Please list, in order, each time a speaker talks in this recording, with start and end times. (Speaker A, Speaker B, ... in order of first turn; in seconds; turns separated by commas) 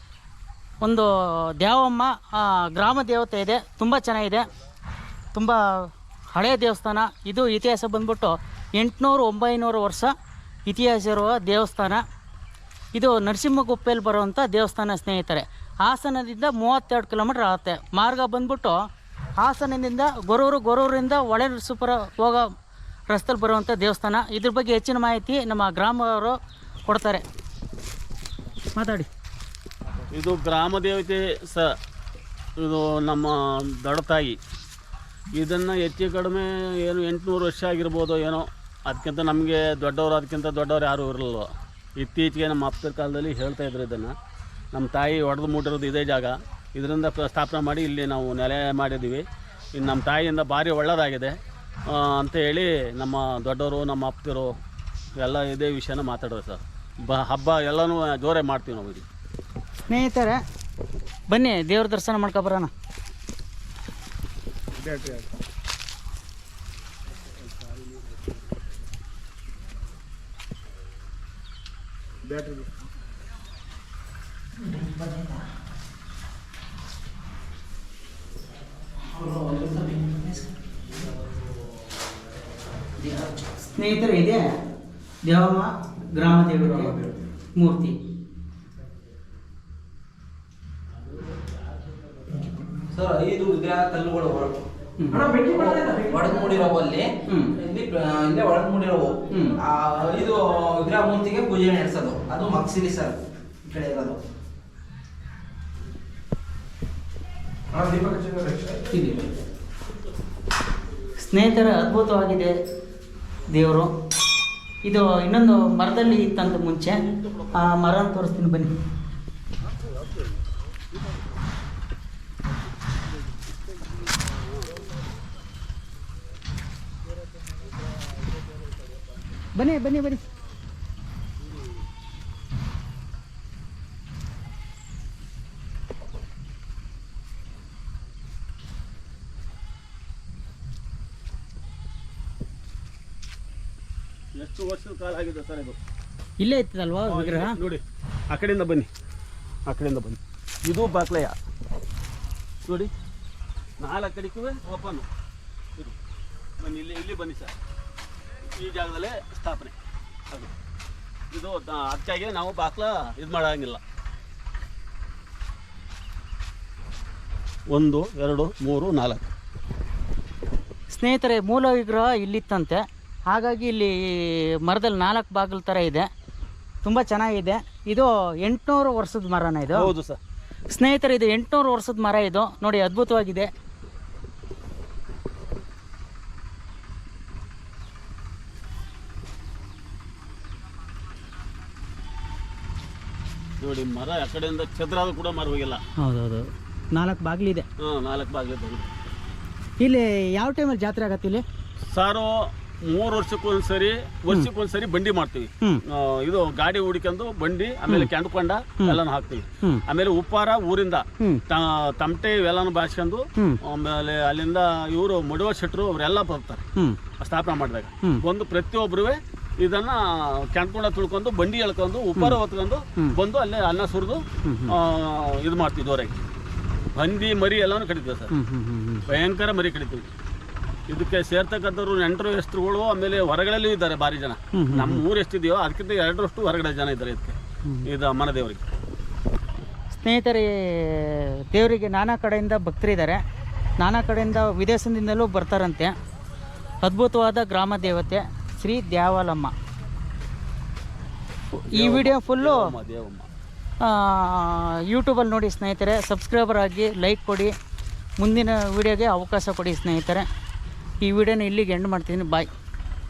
Speaker A: 0.8-4.5, Speaker A: 5.3-10.1, Speaker A: 10.7-12.0, Speaker A: 12.9-18.8, Speaker A: 19.4-22.4, Speaker A: 23.1-27.2, Speaker A: 28.7-29.1, Speaker B: 30.1-31.7, Speaker B: 32.6-34.4, Speaker B: 35.3-44.1, Speaker B: 44.7-51.3, Speaker B: 51.9-54.5, Speaker B: 55.2-59.0, Speaker A: 59.9-60.4, Speaker A: 61.3-62.7, Speaker C: 74.6-75.4, Speaker C: 79.0-80.5, Speaker C: 83.0-83.6, Speaker A: 83.7-84.5, Speaker A: 85.2-88.0, Speaker C: 92.8-104.2, Speaker A: 95.0-95.8, Speaker A: 97.3-97.5, Speaker A: 99.3-99.6, Speaker C: 107.7-109.0, Speaker A: 111.2-112.5, Speaker A: 113.5-113.9, Speaker A: 114.8-118.7, Speaker A: 129.6-130.2, Speaker B: 144.4-145.8, Speaker A: 146.4-147.6, Speaker B: 147.1-148.9, Speaker B: 149.7-151.4, Speaker B: 153.8-155.1, Speaker B: 156.6-157.5, Speaker B: 158.5-159.8, Speaker B: 161.3-163.8, Speaker B: 167.7-169.3, Speaker A: 170.9-176.1, Speaker A: 176.8-179.9, Speaker B: 179.7-180.2, Speaker A: 180.7-183.5, Speaker B: 193.6-195.8, Speaker A: 196.0-197.7, Speaker B: 197.8-198.9, Speaker A: 199.8-201.4, Speaker B: 201.9-202.3, Speaker B: 202.9-216.7, Speaker B: 217.2-226.2, Speaker A: 224.4-224.8, Speaker B: 226.9-228.3, Speaker A: 228.3-229.1, Speaker B: 229.1-230.1, Speaker B: 230.9-238.6, Speaker A: 234.5-235.0, Speaker A: 239.9-243.2, Speaker A: 243.8-245.9, Speaker A: 246.8-249.5, Speaker A: 251.7-252.7, Speaker B: 251.7-253.3, Speaker A: 253.8-257.5, Speaker A: 258.2-260.3, Speaker A: 261.0-262.5